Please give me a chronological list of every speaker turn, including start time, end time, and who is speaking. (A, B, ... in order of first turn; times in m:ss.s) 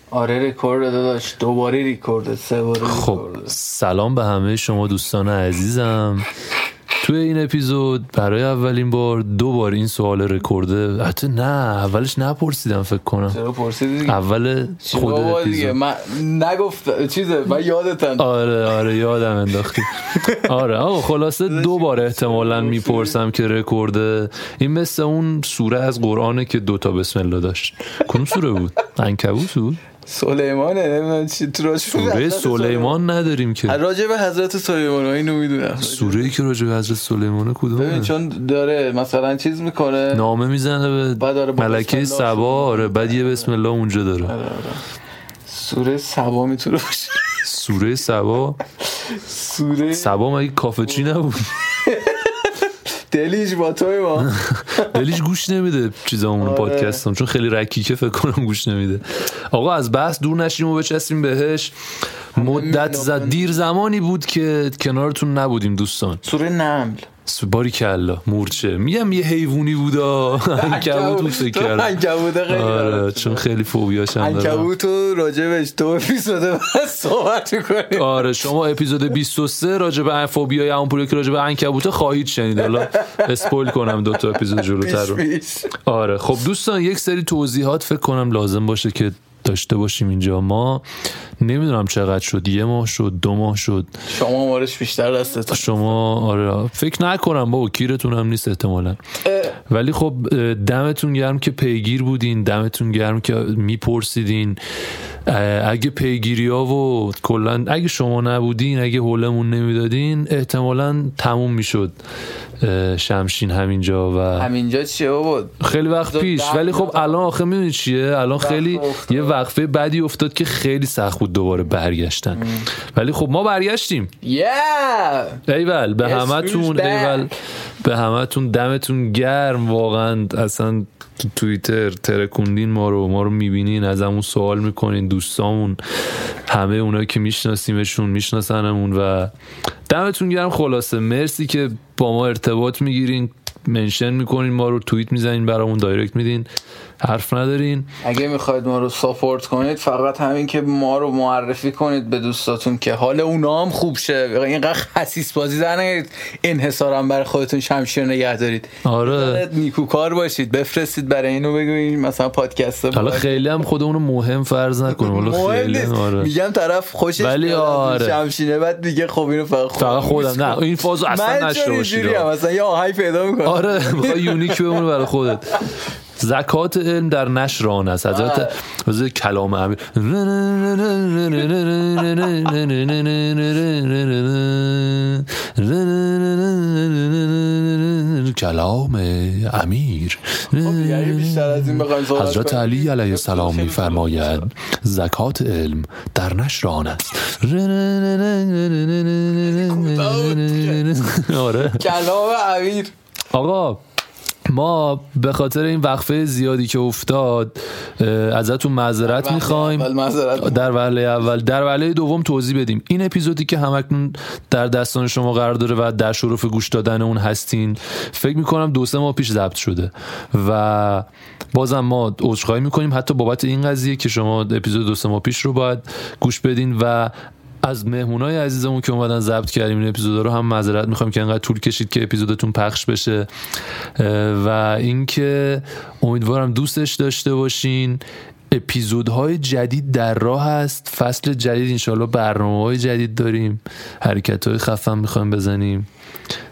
0:00.1-0:03.5 A
0:02.8-0:06.3 B
0:07.0-0:13.4 B
0:13.3-0:14.2 A
0:14.0-0:15.8 B
0:14.8-0:18.3 A
0:18.2-0:29.8 B
0:21.5-0:23.2 A
0:30.0-0:33.0 A
0:31.9-0:33.8 B
0:33.6-0:36.3 A
0:35.8-0:38.1 B
0:37.7-0:40.3 A
0:40.1-0:44.3 B
0:41.2-0:43.5 A
0:44.2-0:44.8 A
0:45.5-0:47.3 A
0:47.4-0:48.6 B
0:49.0-0:50.2 A
0:49.9-0:51.5 B
0:51.8-0:55.0 A
0:54.3-1:01.7 B
0:56.4-0:57.0 A
1:02.3-1:06.2 B
1:02.4-1:03.5 A
1:06.2-1:07.1 A
1:07.2-1:12.0 B
1:10.4-1:13.5 A
1:12.5-1:14.7 B
1:14.2-1:18.3 A
1:17.9-1:25.2 B
1:22.8-1:23.3 A
1:24.4-1:25.7 A
1:25.8-1:30.8 B
1:31.4-1:33.9 B
1:34.1-1:35.9 A
1:35.5-1:39.0 B
1:39.2-1:39.5 A
1:39.7-1:44.6 B
1:45.2-1:52.0 B
1:52.6-1:54.5 B
1:54.4-1:57.2 A
1:55.6-2:04.1 B
1:58.4-1:59.4 A
2:04.2-2:05.4 A
2:05.5-2:15.8 B
2:06.0-2:07.3 A
2:16.5-2:19.3 B
2:19.9-2:26.5 B
2:27.0-2:27.9 B
2:28.0-2:43.4 A
2:38.8-2:39.5 B
2:42.9-2:46.3 B
2:44.9-2:54.8 A
2:47.2-2:48.2 B
2:49.8-2:52.3 B
2:53.4-2:55.6 B
2:56.2-3:21.8 B
2:58.1-2:58.5 A
3:10.5-3:14.4 A
3:19.4-3:20.9 A
3:21.6-3:22.9 A
3:23.3-3:23.8 B
3:24.5-3:53.3 B
3:29.0-3:30.7 A
3:54.0-4:05.9 B